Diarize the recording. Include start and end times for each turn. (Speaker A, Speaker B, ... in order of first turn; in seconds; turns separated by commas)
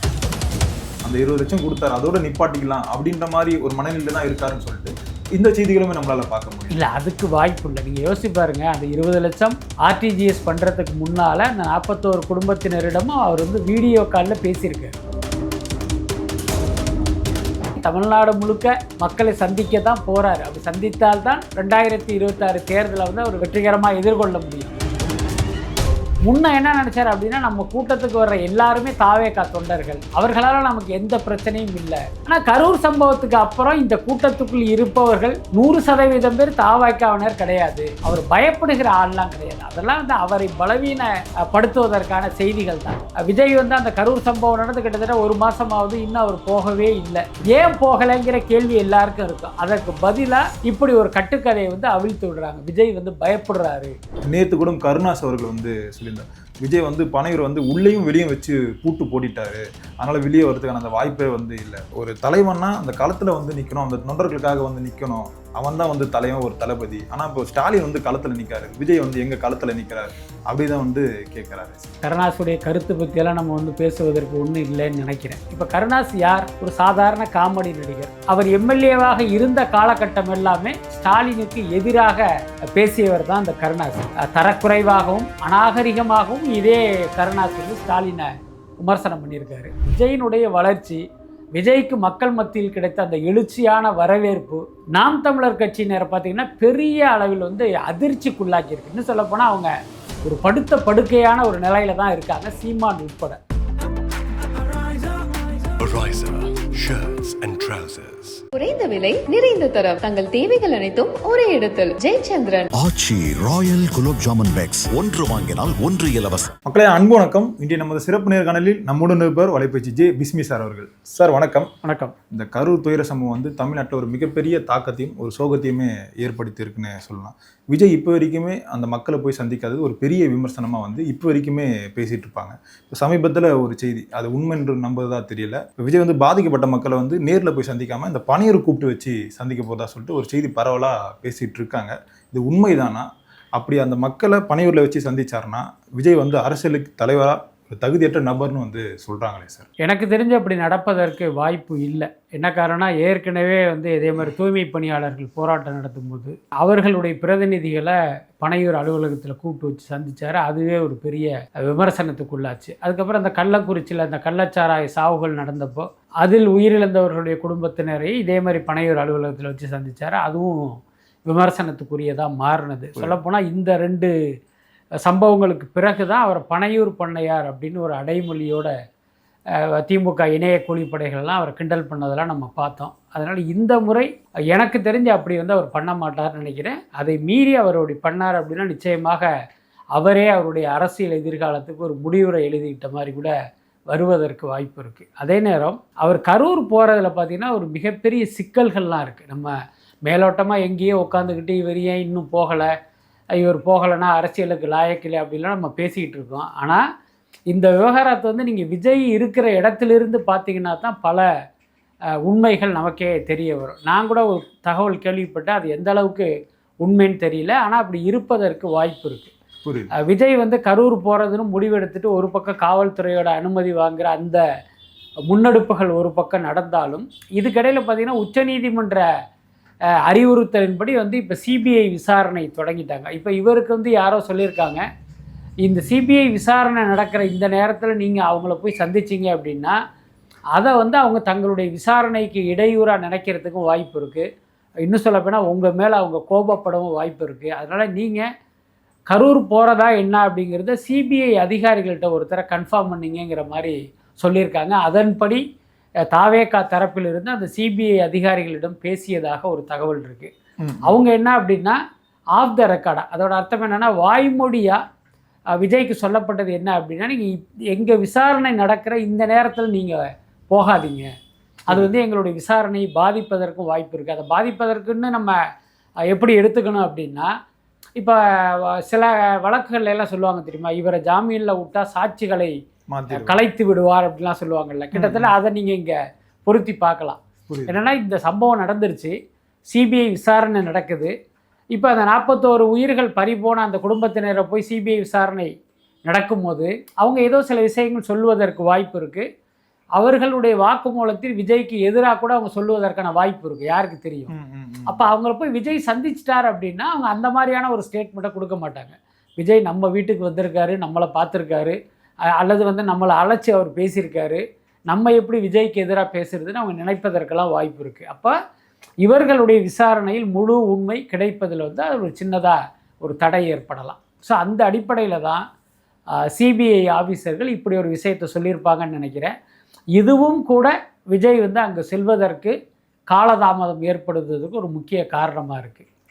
Speaker A: 1.1-6.9, Speaker B: 6.7-15.0, Speaker B: 17.8-24.7, Speaker B: 26.2-53.9, Speaker A: 54.3-71.9, Speaker B: 72.0-82.2, Speaker B: 82.8-88.3, Speaker B: 88.8-91.0, Speaker B: 91.6-99.7, Speaker B: 100.2-103.4, Speaker C: 105.8-108.4, Speaker D: 108.5-112.7, Speaker E: 112.7-116.5, Speaker A: 116.7-121.7, Speaker B: 121.8-122.1, Speaker A: 122.3-143.1, Speaker A: 143.6-149.7, Speaker B: 149.8-174.1, Speaker B: 175.1-178.7, Speaker B: 179.8-189.3, Speaker B: 189.9-193.3, Speaker B: 193.9-199.5, Speaker B: 200.1-202.7, Speaker B: 203.4-206.8, Speaker B: 207.5-211.3, Speaker B: 212.3-216.3, Speaker B: 216.8-219.3, Speaker A: 219.7-219.9, Speaker B: 220.0-224.4, Speaker B: 225.3-229.1, Speaker B: 230.1-234.8, Speaker B: 235.6-239.8, Speaker B: 240.6-244.2, Speaker B: 244.9-248.2, Speaker B: 249.1-255.4, Speaker B: 256.1-260.3, Speaker A: 260.6-261.0, Speaker B: 260.9-261.8, Speaker B: 262.4-264.8, Speaker B: 265.6-270.0, Speaker B: 270.5-271.1, Speaker B: 271.7-275.4, Speaker B: 276.1-277.3, Speaker B: 278.0-282.5, Speaker A: 282.9-283.4, Speaker B: 283.1-285.9, Speaker A: 284.9-285.3, Speaker B: 286.5-289.1, Speaker A: 287.5-287.8, Speaker B: 289.7-291.1, Speaker B: 291.7-295.5, Speaker B: 296.1-299.2, Speaker B: 300.0-304.3, Speaker A: 304.3-305.0, Speaker B: 304.9-311.8, Speaker B: 312.4-318.3, Speaker B: 319.0-325.4, Speaker B: 326.4-329.3, Speaker B: 330.0-332.6, Speaker B: 333.1-335.9